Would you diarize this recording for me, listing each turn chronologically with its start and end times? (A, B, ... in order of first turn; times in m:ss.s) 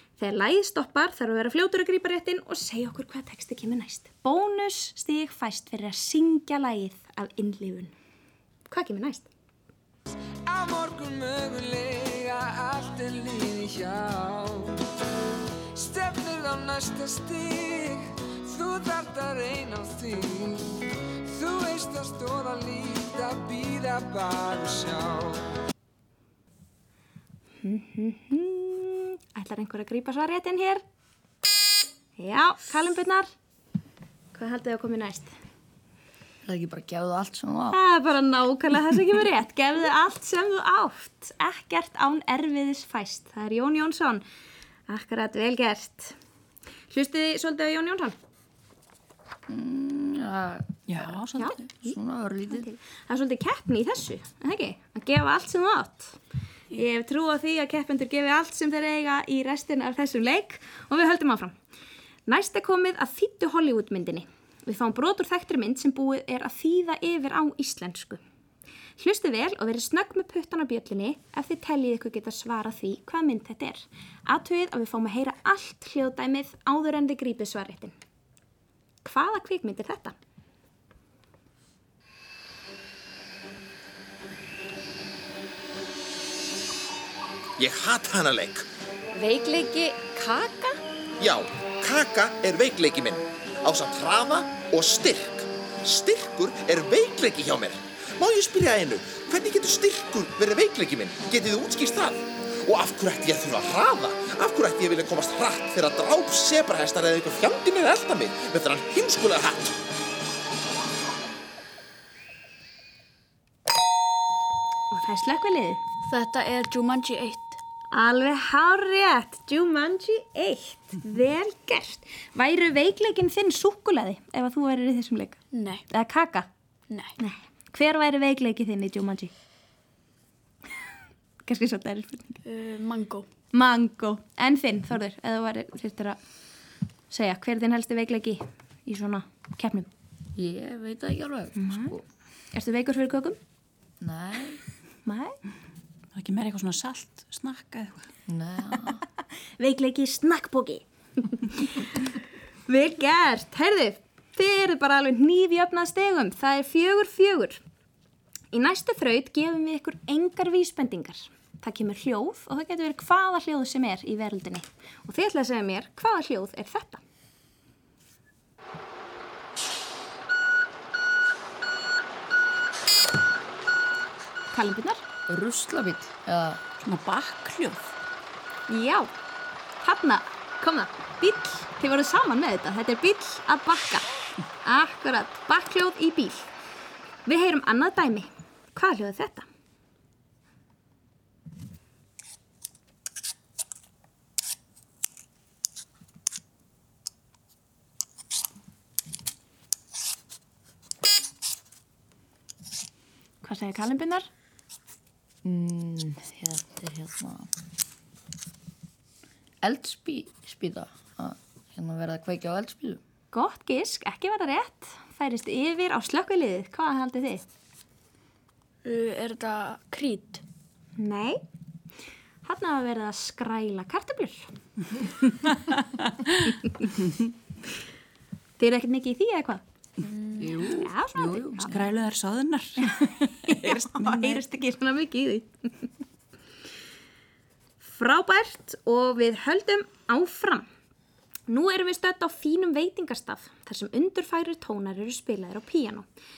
0:00.2-0:07.9 A
0:08.7-0:09.3 A
0:10.5-0:14.8 B
0:15.8-0:25.4 B
0:27.6-0:30.8 A
0:32.2-0:33.3 A
0:34.3-0:35.3 A
0:36.4-0:37.8 C
0:37.7-0:44.2 A
0:44.9-0:46.1 A
0:46.9-0:48.2 A
0:49.5-0:52.7 C
0:50.9-0:51.5 D
0:51.4-0:52.0 A
0:52.5-0:56.2 A
0:56.7-1:01.5 A
1:02.3-1:08.2 A
1:09.0-1:17.9 A
1:19.0-1:20.1 A
1:27.6-1:28.6 E
1:29.2-1:30.7 A
1:31.2-1:49.8 E
1:54.9-1:55.8 A
1:56.1-1:57.6 F
1:57.9-2:06.5 A
2:05.5-2:05.8 F
2:06.9-2:07.1 F
2:07.2-2:09.3 A
2:11.4-2:12.4 A
2:12.4-2:13.3 F
2:13.5-2:16.2 A
2:17.1-2:19.9 A
2:20.4-2:22.0 C
2:21.6-2:21.9 A
2:22.5-2:23.4 A
2:24.0-2:24.6 C
2:25.0-2:25.4 A
2:26.1-2:28.1 D
2:28.3-2:29.0 C
2:29.6-2:31.9 A
2:32.7-2:37.6 A
2:38.5-2:47.0 A
2:54.5-2:55.0 A
2:55.3-2:56.6 C
2:56.8-2:57.9 D
2:58.7-2:59.1 A
2:59.8-3:04.1 A
3:04.6-3:06.5 A
3:07.2-3:09.5 A
3:23.4-3:24.3 A
3:25.4-3:27.5 C
3:29.6-3:33.0 C
3:33.3-3:37.4 A
3:38.8-3:40.4 F
3:41.0-3:41.4 A
3:42.4-3:44.5 A
3:48.6-3:49.6 A
3:50.0-3:50.4 F
3:50.4-3:51.8 C
3:50.6-3:51.8 A
3:51.6-3:54.4 D
3:53.5-3:55.9 A
3:57.8-4:00.6 A
4:01.5-4:06.1 A